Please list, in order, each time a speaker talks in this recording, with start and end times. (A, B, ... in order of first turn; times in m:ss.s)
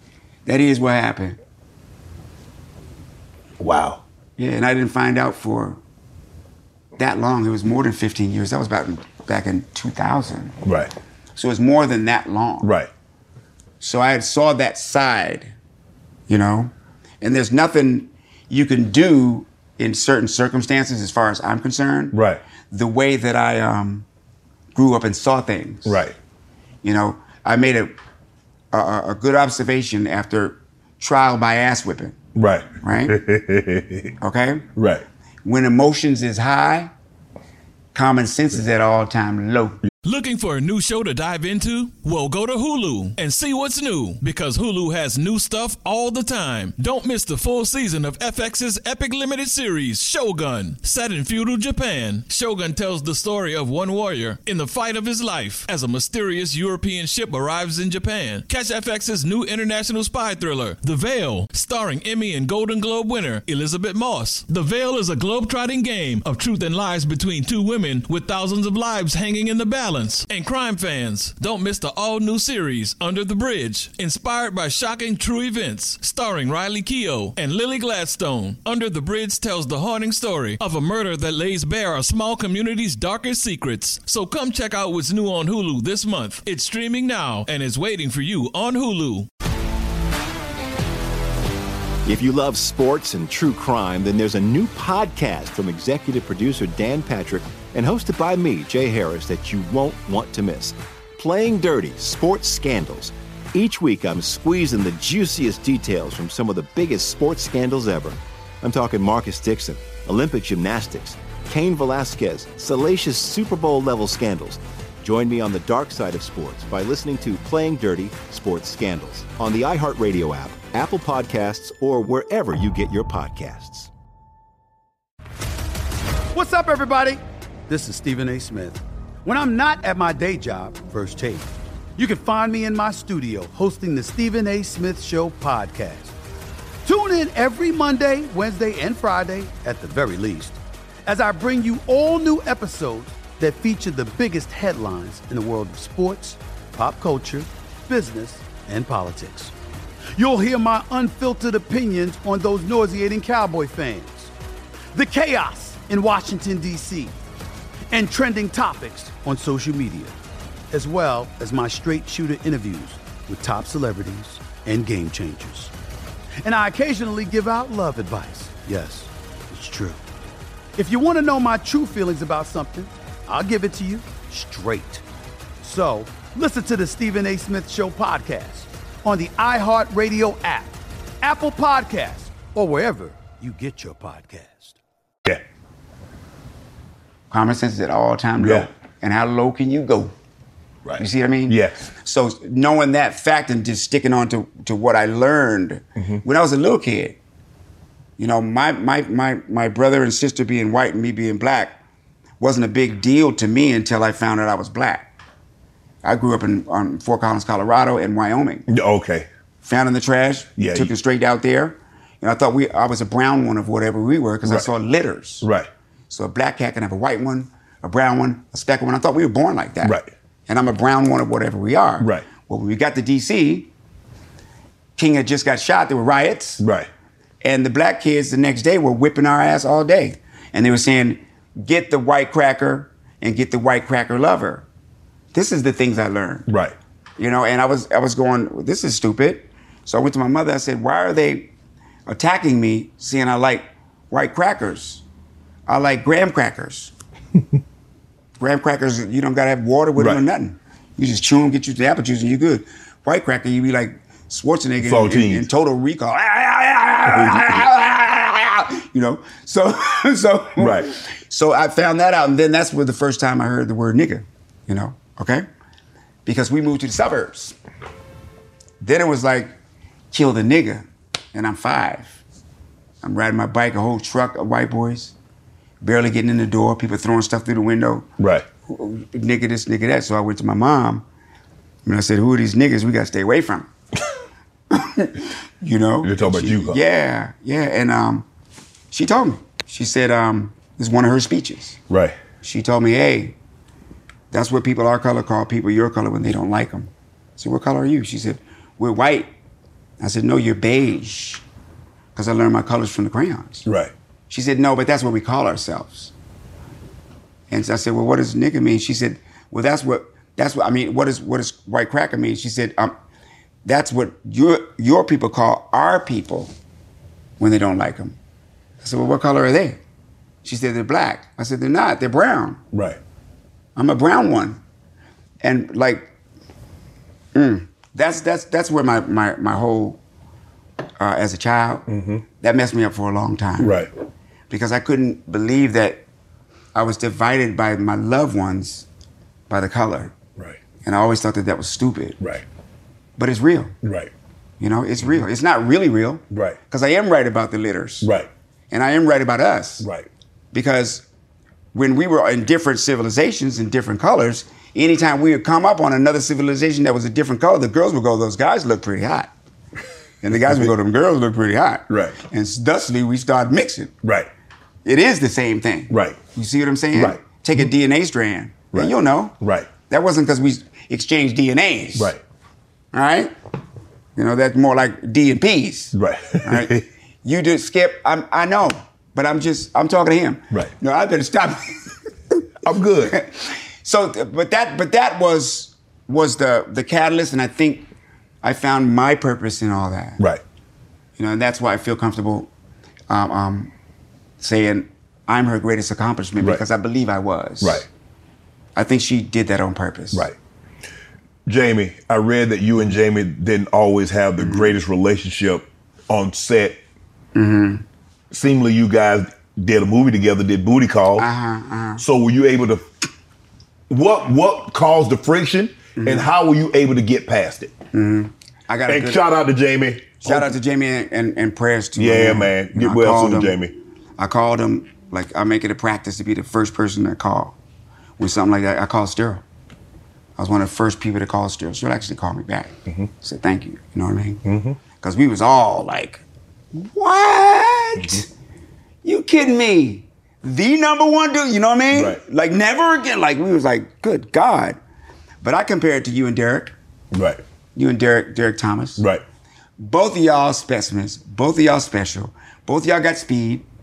0:00.4-0:01.4 A
0:03.6-0:04.0 B
0:04.4-0:05.8 A
0:07.0-0:10.6 A
0:10.6-0:10.9 B
0:11.4-0:12.7 A
0:12.6-0:12.9 B
0:13.8-0:15.5 A
0:16.3-0:22.2 A
0:22.1-0:22.4 B
0:22.7-0:24.0 A
0:24.7-0:26.0 A
0:25.8-0:26.1 B
0:26.8-0:27.9 A
0:28.7-0:32.2 A
0:32.3-0:34.1 B
0:32.8-0:33.2 A
0:34.2-0:34.7 A
0:34.8-0:35.0 B
0:35.4-0:36.9 A
0:37.9-0:39.8 A
0:40.0-1:29.3 C
1:32.0-2:03.9 D
2:06.3-2:16.1 E
2:16.8-2:29.5 E
2:30.1-2:34.3 E
2:34.9-2:37.1 E
2:37.9-2:40.2 E
2:40.7-2:45.7 E
2:46.4-2:50.0 E
2:50.8-2:55.0 E
2:55.6-3:04.8 E
3:07.3-3:10.1 A
3:08.4-3:08.7 B
3:10.8-3:11.9 B
3:11.0-3:17.2 A
3:16.0-3:16.2 B
3:18.2-3:21.8 A
3:22.4-3:25.1 A
3:26.0-3:28.6 A
3:28.7-3:29.3 B
3:29.6-3:35.5 A
3:30.6-3:30.9 B
3:35.4-3:35.7 B
3:36.1-3:43.7 A
3:39.8-3:40.1 B
3:42.0-3:42.2 B
3:45.0-3:46.6 A
3:46.6-3:46.9 B
3:47.4-3:54.6 A
3:55.3-3:56.5 A
3:56.5-3:56.7 B
3:57.2-4:01.5 A
4:02.0-4:05.0 A
4:05.7-4:06.9 A
4:08.4-4:25.4 A
4:10.0-4:10.2 B
4:14.8-4:15.5 B
4:17.0-4:17.6 B
4:20.6-4:20.9 B
4:26.2-4:27.5 A
4:28.8-4:29.5 A
4:30.1-4:32.2 A
4:33.0-4:35.1 A
4:35.8-4:38.1 A
4:38.2-4:38.4 B
4:38.7-4:41.0 A
4:41.8-4:43.7 A
4:44.7-4:48.2 A
4:46.0-4:46.8 B
4:48.9-4:51.8 A
4:51.9-4:52.2 B
4:52.4-4:53.4 A
4:54.3-4:59.3 A
5:00.0-5:01.4 A
5:02.1-5:03.7 A
5:03.6-5:03.9 B
5:04.3-5:06.1 A
5:07.5-5:12.9 A
5:13.6-5:16.5 A
5:17.4-5:18.2 A
5:18.8-5:19.8 A
5:20.4-5:22.6 A
5:22.7-5:23.0 B
5:23.8-5:24.6 A
5:25.4-5:26.1 A
5:27.3-5:30.0 A
5:31.0-5:31.9 A
5:31.9-5:32.2 B
5:32.4-5:33.8 A
5:33.6-5:33.9 B
5:34.5-5:36.0 A
5:36.7-5:38.8 A
5:39.5-5:40.1 A
5:40.8-5:42.2 A
5:42.2-5:42.4 B
5:43.2-5:43.7 A
5:43.8-5:44.1 B
5:44.6-5:48.1 A
5:46.3-5:46.6 B
5:48.0-5:48.3 B
5:48.7-5:49.9 A
5:49.8-5:50.1 B
5:50.5-5:51.0 A
5:51.7-5:59.3 A
6:00.2-6:03.9 A
6:00.4-6:00.7 B
6:01.9-6:02.2 B
6:04.0-6:04.3 B
6:04.8-6:09.3 A
6:05.9-6:06.2 B
6:06.9-6:07.6 B
6:08.7-6:09.7 B
6:09.9-6:12.1 A
6:12.0-6:12.2 B
6:12.9-6:13.3 A
6:14.2-6:21.9 A
6:15.9-6:16.8 B
6:22.6-6:23.2 B
6:23.1-6:27.9 A
6:28.4-6:30.2 A
6:31.2-6:32.5 A
6:33.1-6:33.7 A
6:34.4-6:37.8 A
6:37.6-6:37.8 B
6:38.8-6:40.3 A
6:41.4-6:46.8 B
6:44.4-6:44.7 A
6:47.3-6:47.8 A
6:48.3-6:51.3 B
6:51.2-6:52.0 A
6:52.0-6:52.8 B
6:53.9-6:57.7 B
6:56.0-6:56.3 A
6:57.9-6:59.2 A
6:58.9-7:00.5 B
7:00.2-7:03.6 A
7:02.0-7:03.7 B
7:04.2-7:07.6 A
7:08.2-7:09.4 A
7:10.4-7:14.4 A
7:14.4-7:14.8 B
7:15.0-7:16.2 A
7:16.7-7:18.3 A
7:18.0-7:18.2 B
7:19.0-7:24.8 A
7:21.9-7:22.2 B
7:25.4-7:26.7 A
7:27.1-7:27.4 B
7:27.8-7:29.0 A
7:29.8-7:33.6 A